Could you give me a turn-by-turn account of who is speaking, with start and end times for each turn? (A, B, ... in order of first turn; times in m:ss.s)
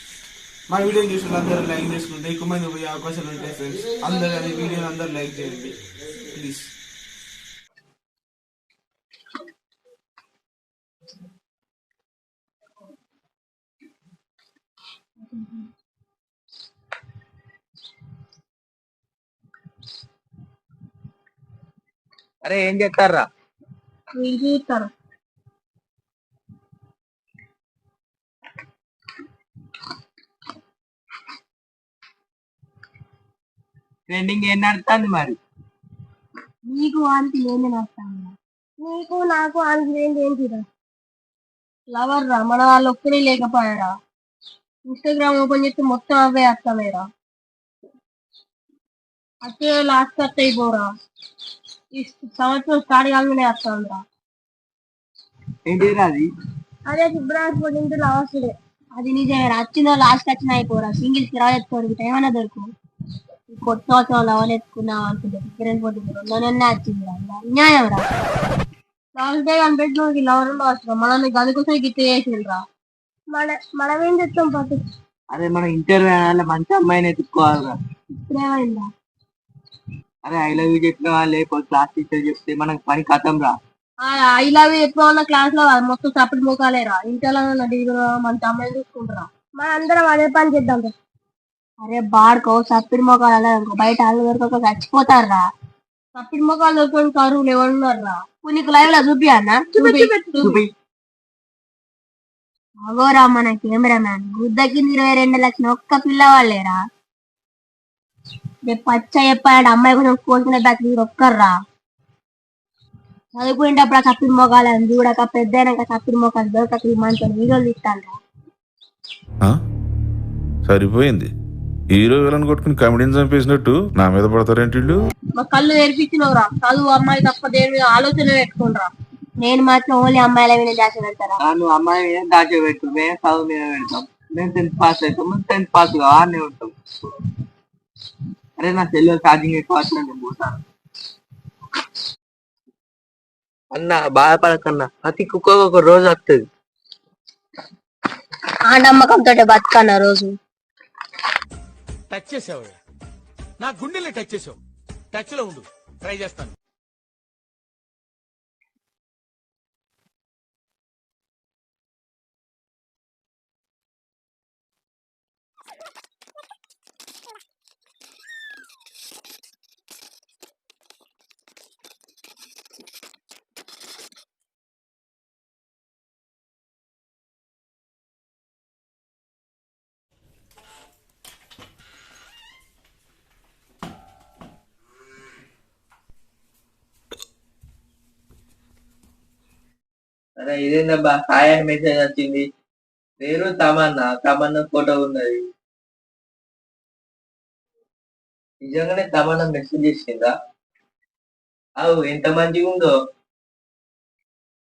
0:00.7-0:06.7 A
0:22.4-0:23.3 B
0:24.2-0:24.9 C
0:34.1-0:35.4 B
0:36.7-0:40.6 C
0:41.9-0:43.9 C
0:44.9-0:47.1 C
0:49.4-0:50.9 C
0:52.0-0:54.0 C
0:55.7-0:56.3 B
0:56.9-1:02.7 C
1:03.5-1:08.1 C
1:09.2-1:12.6 C
1:13.3-1:14.8 C
1:15.3-1:17.8 B
1:18.2-1:18.9 C
1:20.2-1:23.6 B
1:24.0-1:30.9 C
1:31.8-1:35.5 C
1:36.2-1:40.6 C
1:39.7-1:40.7 B
1:42.8-1:46.8 C
1:48.7-1:51.6 C
1:53.3-1:58.2 C
2:00.6-2:01.3 D
2:01.9-2:05.1 D
2:05.4-2:08.9 C
2:09.4-2:11.4 C
2:11.4-2:16.7 B
2:18.6-2:20.6 B
2:23.7-2:26.4 B
2:28.7-2:30.4 C
2:32.1-2:32.8 E
2:33.6-2:34.6 E
2:35.1-2:36.5 E
3:10.4-3:12.4 B
3:13.2-3:15.4 B
3:18.6-3:20.3 B
3:21.8-3:22.9 B